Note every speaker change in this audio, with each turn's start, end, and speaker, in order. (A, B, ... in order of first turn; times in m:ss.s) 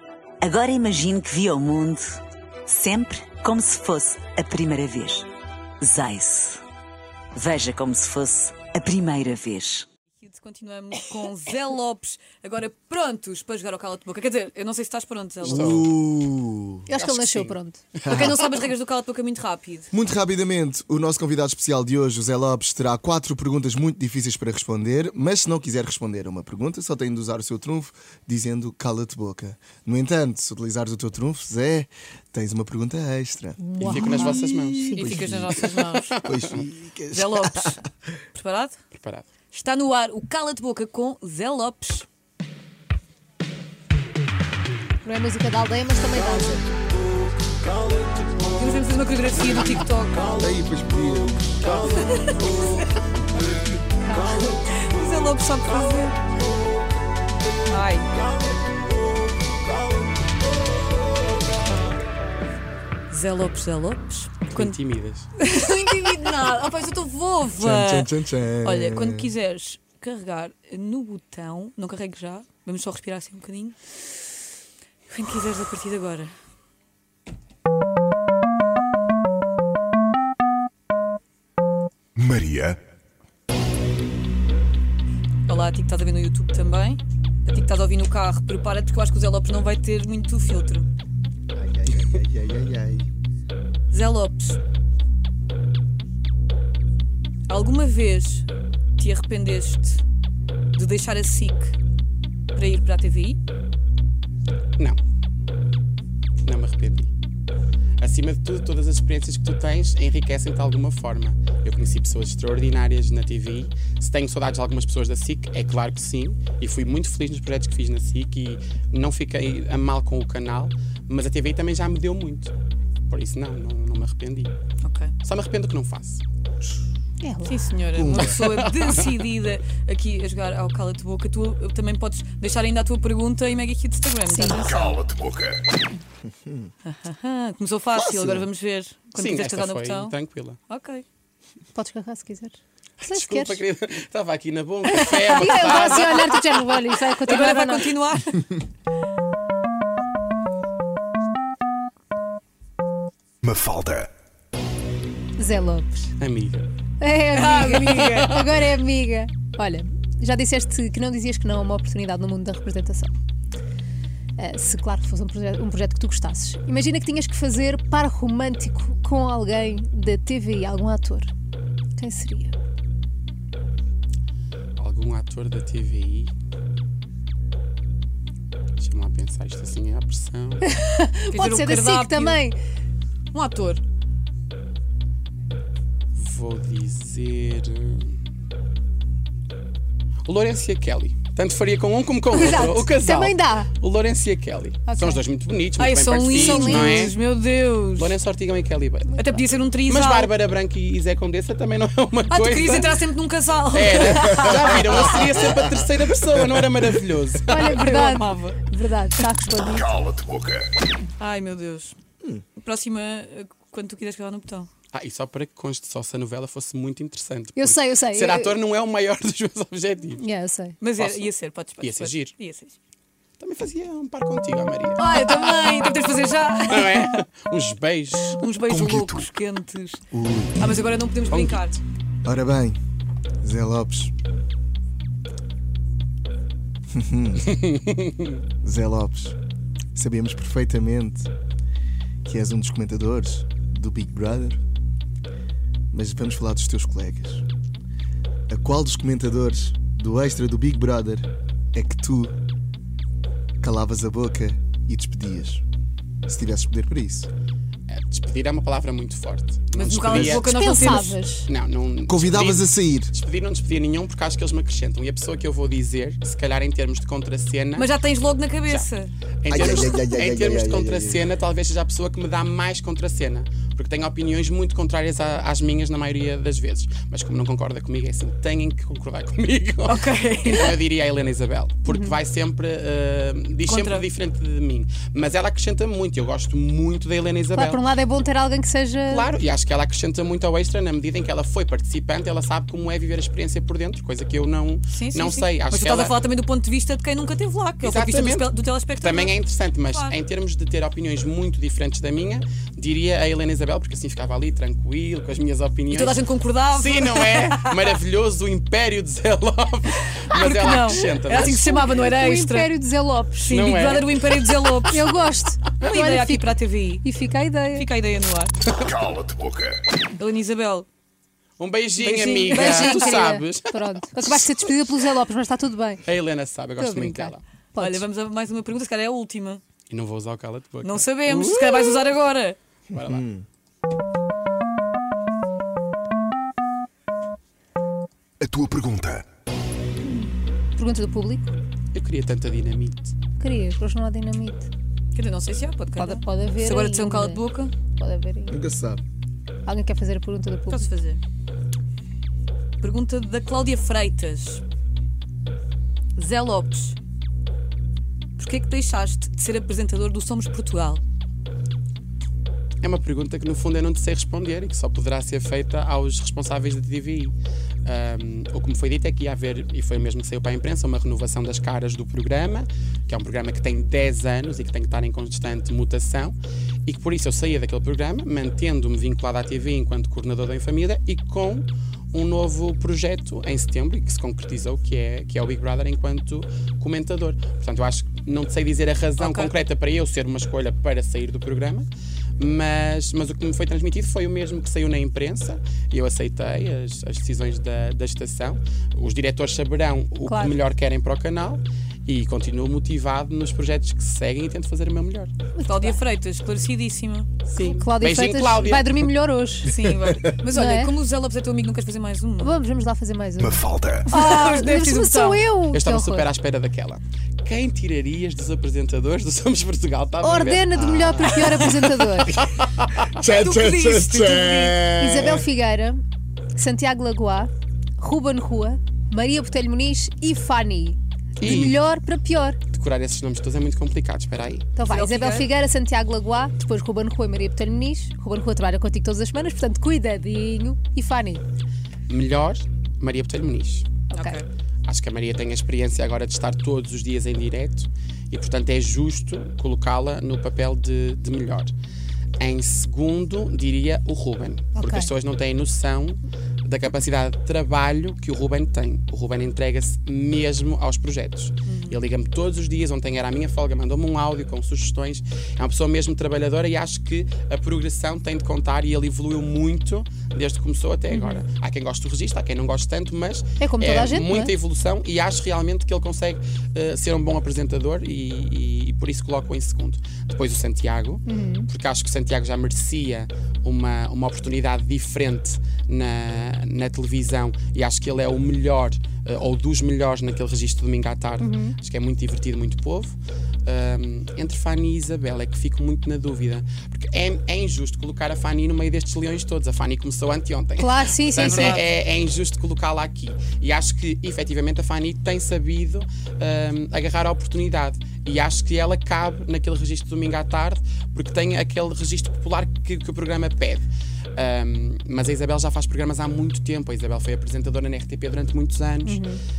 0:00.4-0:05.3 A
0:05.8-0:06.6 A
0:07.3-0:09.8 A
0:10.2-0:15.7 B
0:15.4-0:16.0 C
0:15.4-0:16.9 D
0:16.9-0:17.8 E
0:16.9-0:18.2 C
0:18.1-0:18.4 D
0:18.1-0:19.9 B
0:19.9-0:35.6 D
0:33.6-0:35.2 E
0:33.8-0:36.6 C
0:34.4-0:36.2 B
0:36.2-0:37.8 D
0:37.1-0:37.8 B
0:38.3-0:38.8 B
0:38.9-0:39.3 C
0:39.4-0:42.1 B
0:45.0-0:46.7 E
0:48.5-0:50.5 B
0:50.4-0:52.7 D
0:52.1-0:52.5 B
0:54.0-0:54.5 E
0:54.5-0:56.2 B
0:57.7-0:58.1 B
1:03.1-1:04.8 B
1:04.5-1:05.3 C
1:05.4-1:13.9 B
1:07.6-1:09.3 D
1:15.1-1:16.3 B
1:22.2-1:22.8 F
1:25.5-1:30.9 B
1:31.5-1:33.1 D
1:33.9-1:34.6 B
1:37.5-1:40.0 B
1:40.7-1:41.7 B
1:42.5-1:43.4 B
1:46.4-1:47.1 C
1:48.0-2:02.5 C
2:03.1-2:04.5 C
2:04.8-2:05.1 B
2:05.2-2:06.2 C
2:07.2-2:07.7 E
2:07.4-2:15.1 B
2:07.9-2:08.4 D
2:08.2-2:09.1 C
2:14.3-2:14.6 E
2:14.8-2:15.6 F
2:16.8-2:20.2 B
2:18.0-2:18.4 D
2:19.2-2:20.6 C
2:20.7-2:21.0 B
2:21.7-2:23.6 E
2:23.0-2:26.5 C
2:24.9-2:27.9 E
2:25.0-2:25.7 B
2:27.2-2:28.6 B
2:33.4-2:34.1 F
2:35.4-2:36.1 E
2:36.2-2:36.7 C
2:37.0-2:43.1 E
2:37.3-2:38.2 B
2:37.7-2:38.6 C
2:44.4-2:51.3 E
2:52.0-2:52.5 E
2:54.8-2:56.3 C
2:58.8-3:00.7 C
3:00.7-3:02.6 E
3:01.3-3:02.4 B
3:03.3-3:03.8 B
3:06.1-3:08.1 C
3:10.2-3:17.2 C
3:12.3-3:13.7 E
3:14.8-3:15.2 E
3:15.8-3:18.2 B
3:16.3-3:17.1 E
3:18.0-3:23.0 C
3:19.1-3:20.3 B
3:22.3-3:25.3 B
3:23.7-3:27.9 C
3:27.5-3:30.0 E
3:27.7-3:28.6 B
3:29.9-3:30.7 F
3:31.2-3:32.0 B
3:32.6-3:34.7 B
3:34.9-3:40.2 C
3:37.6-3:38.6 E
3:40.2-3:40.8 E
3:40.8-3:42.8 B
3:41.0-3:42.3 C
3:43.4-3:45.0 C
3:45.0-3:47.2 B
3:46.7-3:48.4 C
3:48.2-3:50.0 B
3:48.7-3:49.3 F
3:50.1-3:50.6 D
3:50.6-3:51.8 B
3:51.3-3:51.8 C
3:52.2-3:52.8 D
3:53.4-3:54.1 D
3:56.9-3:57.5 D
3:57.4-3:58.4 C
3:58.6-3:59.4 D
3:59.9-4:01.3 D
4:02.2-4:04.6 D
4:05.9-4:07.4 D
4:08.5-4:12.3 D
4:13.6-4:15.6 D
4:16.3-4:17.3 D
4:17.9-4:27.9 C
4:19.7-4:21.2 B
4:20.4-4:21.5 E
4:22.1-4:23.1 D
4:27.7-4:30.1 B
4:29.4-4:47.8 C
4:29.5-4:31.2 D
4:39.8-4:40.8 B
4:41.8-4:42.2 E
4:43.6-4:44.1 B
4:47.5-4:49.3 E
4:49.1-4:56.2 C
4:54.9-5:00.1 B
4:57.8-5:11.9 C
5:05.9-5:07.9 B
5:10.3-5:12.7 B
5:10.9-5:13.6 E
5:13.4-5:15.0 B
5:13.5-5:14.4 C
5:14.8-5:17.9 E
5:15.8-5:17.0 B
5:17.7-5:18.5 B
5:18.9-5:19.8 F
5:20.1-5:20.9 B
5:21.6-5:24.5 C
5:22.0-5:23.2 B
5:22.4-5:26.0 E
5:26.0-5:27.4 C
5:26.8-5:28.0 E
5:27.8-5:29.6 B
5:29.9-5:32.1 C
5:30.8-5:32.6 B
5:32.9-5:33.2 C
5:33.0-5:33.4 D
5:38.4-5:39.2 F
5:40.8-5:41.5 E
5:41.9-5:43.1 C
5:43.4-5:44.7 E
5:45.1-5:47.7 B
5:46.0-5:48.6 E
5:48.5-5:49.0 D
5:49.6-5:50.9 E
5:50.7-5:51.2 B
5:52.8-5:54.6 B
5:56.2-5:57.0 B
5:58.4-6:01.0 B
6:02.8-6:07.3 C
6:07.8-6:31.9 C
6:29.2-6:29.5 B
6:32.4-6:45.3 C
6:40.2-6:40.6 E
6:45.5-6:46.0 E
6:45.6-6:47.4 B
6:47.5-6:49.0 C
6:47.6-6:49.8 E
6:49.7-6:52.6 B
6:50.4-6:50.9 E
6:52.4-6:56.3 E
6:53.4-6:54.1 F
6:54.1-6:55.5 B
6:55.7-7:00.9 C
7:00.2-7:02.4 E
7:00.9-7:01.3 D
7:01.2-7:02.1 B
7:02.3-7:03.0 C
7:03.2-7:05.4 D
7:03.2-7:04.9 B
7:05.0-7:06.0 E
7:06.5-7:12.6 E
7:11.4-7:11.8 C
7:12.7-7:14.7 C
7:14.8-7:21.4 E
7:14.9-7:15.5 B
7:22.1-7:24.0 C
7:24.1-7:24.4 E
7:24.1-7:24.4 B
7:24.8-7:31.7 C
7:32.4-8:39.2 C
7:34.8-7:35.1 E
7:41.7-7:42.0 B
7:51.1-7:51.4 E
7:53.6-7:54.5 E
8:01.2-8:01.7 E
8:11.4-8:11.8 E
8:20.8-8:21.8 E
8:21.3-8:21.9 B
8:39.0-8:39.4 E